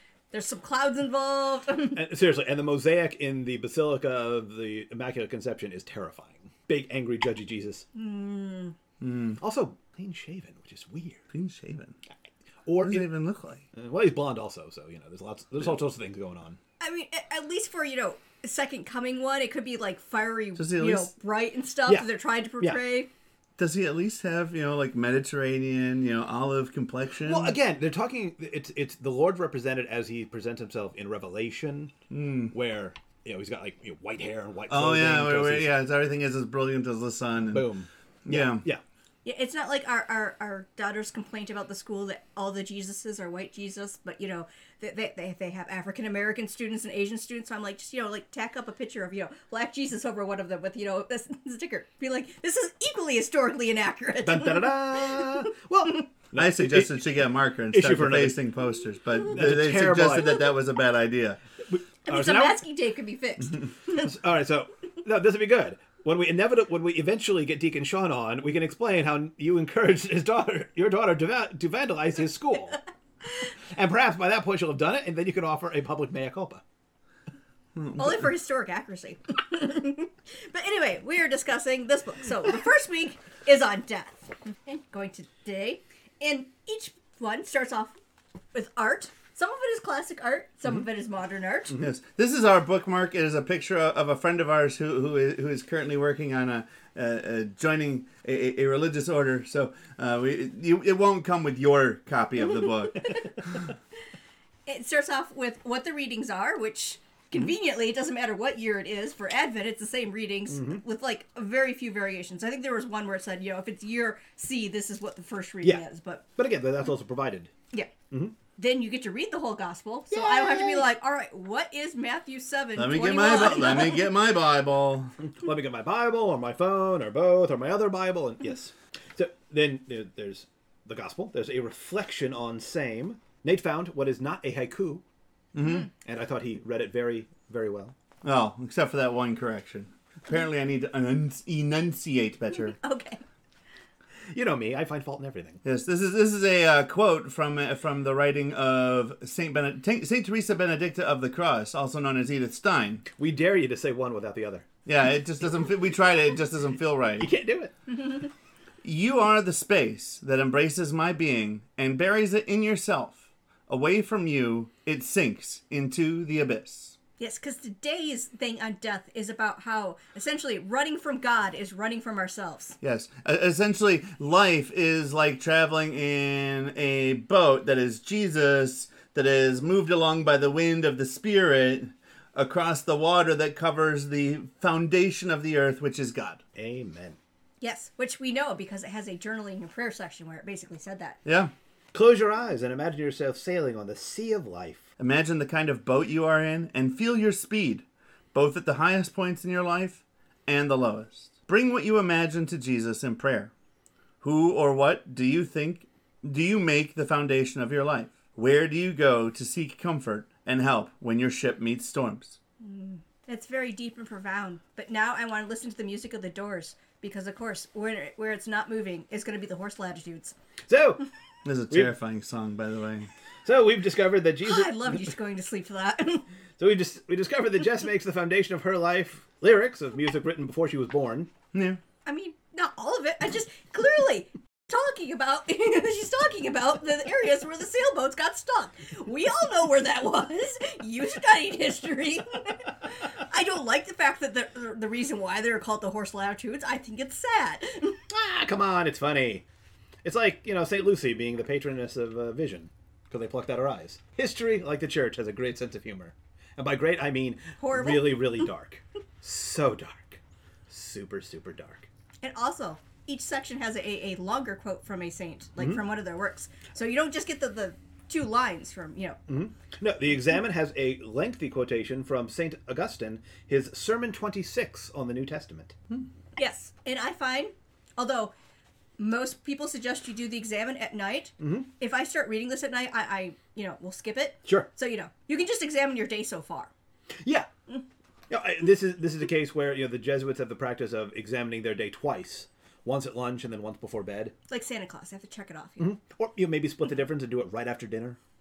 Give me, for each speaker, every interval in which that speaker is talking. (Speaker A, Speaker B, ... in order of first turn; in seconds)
Speaker A: 0.3-2.0, 7.9-8.7, 16.8-23.1, 39.2-55.4, 62.0-64.2, 78.0-88.0, 88.5-91.8, 104.7-116.2, 118.6-124.1, 142.5-143.2, 157.9-158.3, 167.2-172.8, 187.6-191.2, 212.6-220.3, 224.4-226.2, 232.1-248.0, 257.6-258.4, 262.2-269.2, 276.4-278.3, 279.0-286.7, 294.5-295.9
Speaker B: 1.9-7.8, 9.4-11.2, 12.6-13.1, 13.7-16.6, 27.2-31.9, 32.5-35.7, 37.5-38.8, 54.2-57.0, 57.7-58.4, 59.3-60.5, 61.7-62.6, 64.0-72.8, 73.7-76.6, 110.5-110.8, 116.4-117.5, 118.1-118.4, 120.1-120.8, 125.2-135.0, 135.9-137.9, 144.3-145.6, 153.1-154.7, 157.2-157.7, 186.6-187.2, 191.9-194.8, 220.7-221.0, 223.4-225.1, 226.6-231.3, 248.1-249.4, 250.0-261.9, 269.3-276.1, 281.4-281.7, 287.2-287.5, 288.3-294.3, 295.8-298.2
Speaker C: 9.0-9.4, 11.3-11.9, 12.8-13.6, 20.6-21.1, 23.6-27.6, 32.1-32.5, 34.7-37.7, 38.2-38.6, 56.3-61.4, 77.8-78.2, 91.8-103.2, 122.8-125.1, 135.5-135.9, 138.2-142.8, 145.6-153.0, 154.8-157.3, 158.8-166.9, 172.8-186.4, 191.2-191.5, 195.0-203.5, 204.2-212.4, 221.4-223.1, 231.5-231.8